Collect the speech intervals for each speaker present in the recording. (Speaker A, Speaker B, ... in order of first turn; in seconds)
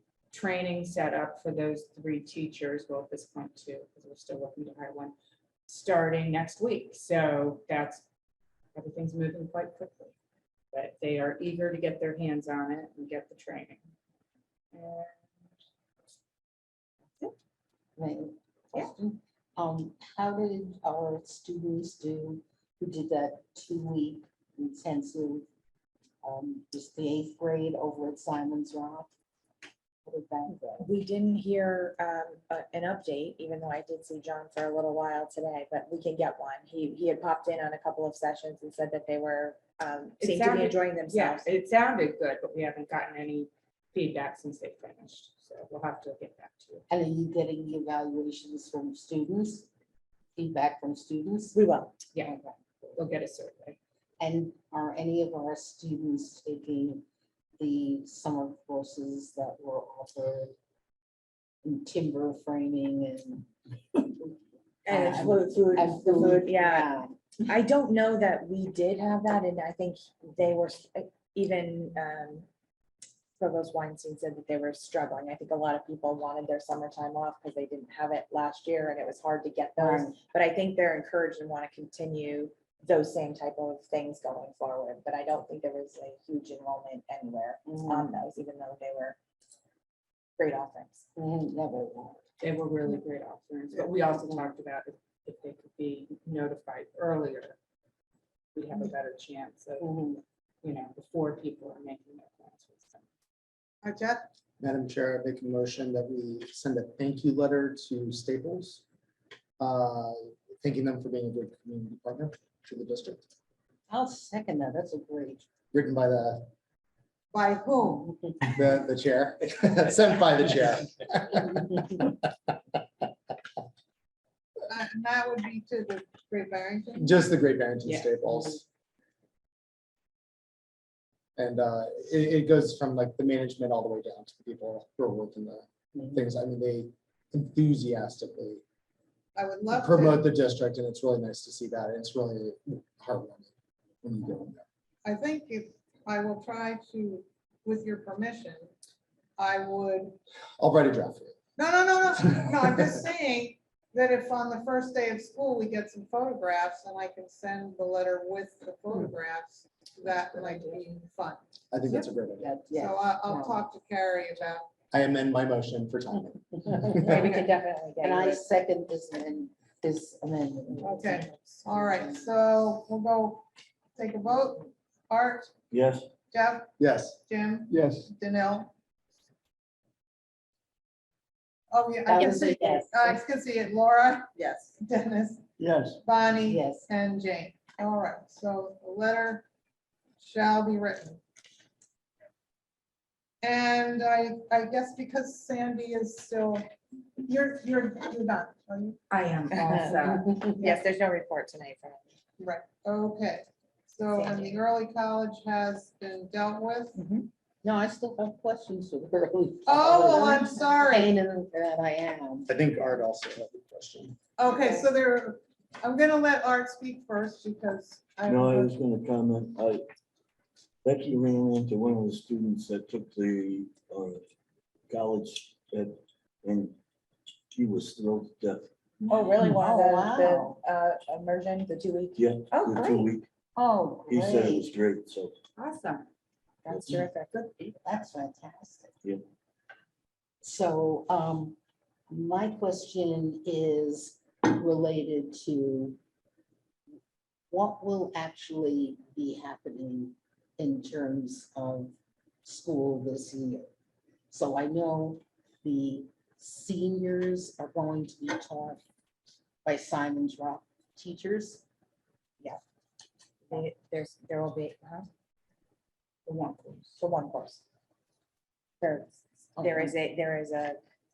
Speaker A: 0.3-5.2, 5.7-8.1, 8.7-10.1, 10.7-13.8, 14.7-15.1, 40.2-46.8, 52.1-53.8, 92.4-97.6, 98.5-99.9, 100.6-103.0, 127.8-128.5, 199.1-200.3, 235.6-236.1, 266.2-267.0
Speaker B: 18.0-25.4, 26.2-29.1, 30.0-30.9, 46.9-49.7, 50.4-51.6, 54.2-57.0, 57.6-60.5, 61.6-63.5, 64.0-64.3, 64.9-67.3, 79.8-80.2, 87.6-88.2, 91.2-92.2, 99.8-100.2, 113.9-115.5, 117.8-118.5, 161.9-163.7, 167.2-167.5, 168.0-171.1, 171.8-172.2, 182.1-183.2, 186.4-186.9, 199.9-200.8, 204.3-204.6, 207.0-212.5, 214.4-214.9, 229.0-230.6, 233.6-234.7, 237.6-238.9, 240.4-241.6, 242.1-246.0, 247.5-253.7, 254.3-258.8, 259.6-261.6, 269.6-269.9
Speaker C: 30.8-41.5, 51.5-52.0, 64.8-72.5, 73.4-89.2, 90.4-91.1, 166.7-168.5, 170.8-171.8, 184.3-184.8, 199.5-199.9, 200.6-202.1, 204.2-204.5, 229.1-233.1, 236.6-237.5, 263.5-265.1, 267.0-267.6, 268.8-270.8
Speaker D: 103.8-104.3, 117.3-118.1, 124.7-127.3, 139.3-140.2, 145.0-148.7, 149.4-150.2, 151.6-161.4, 162.7-164.7, 170.8-173.4, 173.9-175.5, 176.3-176.7, 177.2-178.7, 181.7-185.4, 186.0-189.4, 190.2-191.2, 193.4-196.6, 197.2-199.0, 202.4-207.0, 209.7-211.1, 214.4-218.7
Speaker E: 104.6-108.8, 109.6-113.2, 115.7-116.5, 118.5-122.8, 127.0-128.6, 131.3-138.6, 139.8-143.5, 144.0-144.6, 150.6-151.3, 161.7-162.5, 164.9-167.2, 176.8-177.2, 212.5-214.2
Speaker F: 175.7-176.1, 185.6-186.0, 218.2-219.8, 220.8-224.2, 224.9-226.7, 227.5-228.7, 232.2-233.2, 234.1-235.3, 236.7-236.9